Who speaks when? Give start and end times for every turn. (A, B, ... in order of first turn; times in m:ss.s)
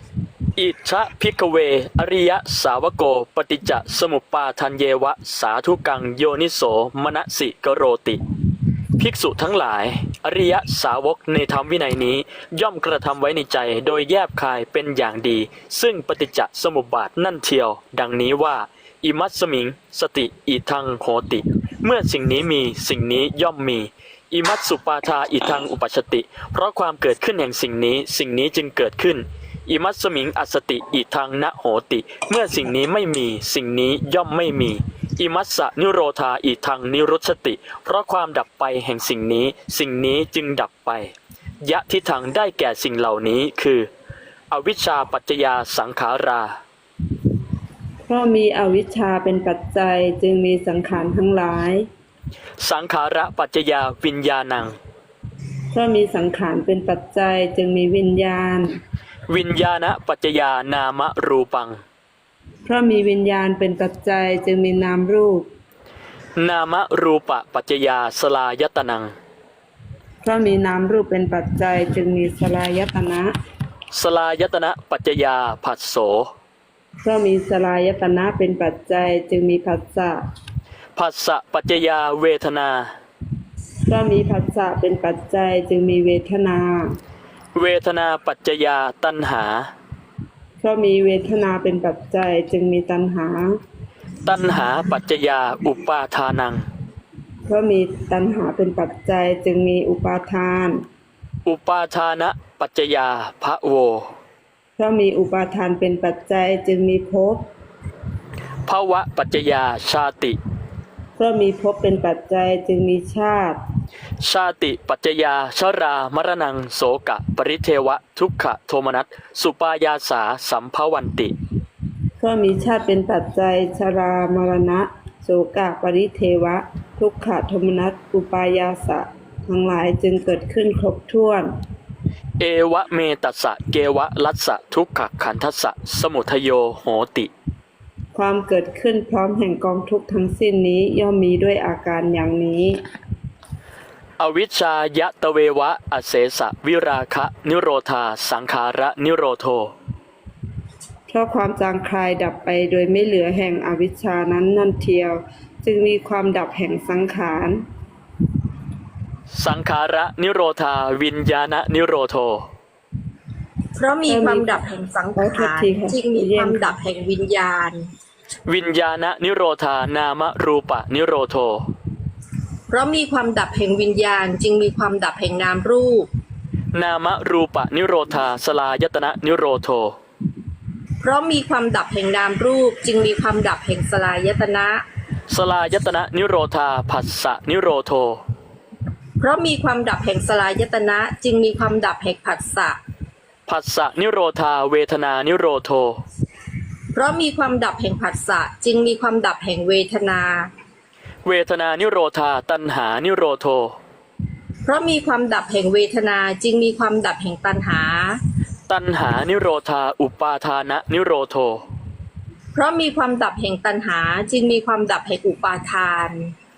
0:00.6-0:08.2 A
0:09.0-0:43.9 A
0:44.5-0:46.6 A
0:48.1-0:51.9 B
0:52.6-0:54.8 A
0:55.7-0:58.8 B
0:59.3-1:01.8 A
1:02.6-1:05.5 B
1:06.4-1:09.1 A
1:10.2-1:13.3 B
1:13.9-1:16.3 A
1:17.0-1:20.2 B
1:21.0-1:22.9 A
1:23.9-1:27.0 B
1:27.6-1:29.7 A
1:30.6-1:33.5 B
1:34.2-1:36.6 A
1:37.5-1:40.8 B
1:41.4-1:44.1 A
1:44.8-1:47.5 B
1:48.7-1:50.4 A
1:51.2-1:53.6 B
1:54.2-2:01.3 A
2:02.2-2:11.5 B
2:12.4-2:17.3 A
2:18.1-2:22.8 B
2:24.2-2:29.7 A
2:31.1-2:37.6 B
2:39.3-2:42.4 A
2:43.8-2:47.9 C
2:44.1-2:44.6 B
2:45.2-2:46.8 B
2:48.5-2:51.7 A
2:52.7-2:56.1 C
2:56.7-3:00.0 A
3:01.0-3:04.8 C
3:05.3-3:08.2 A
3:09.2-3:12.8 C
3:13.5-3:16.0 A
3:16.9-3:20.5 C
3:21.2-3:23.8 A
3:24.6-3:28.2 C
3:28.7-3:31.6 A
3:32.5-3:36.3 C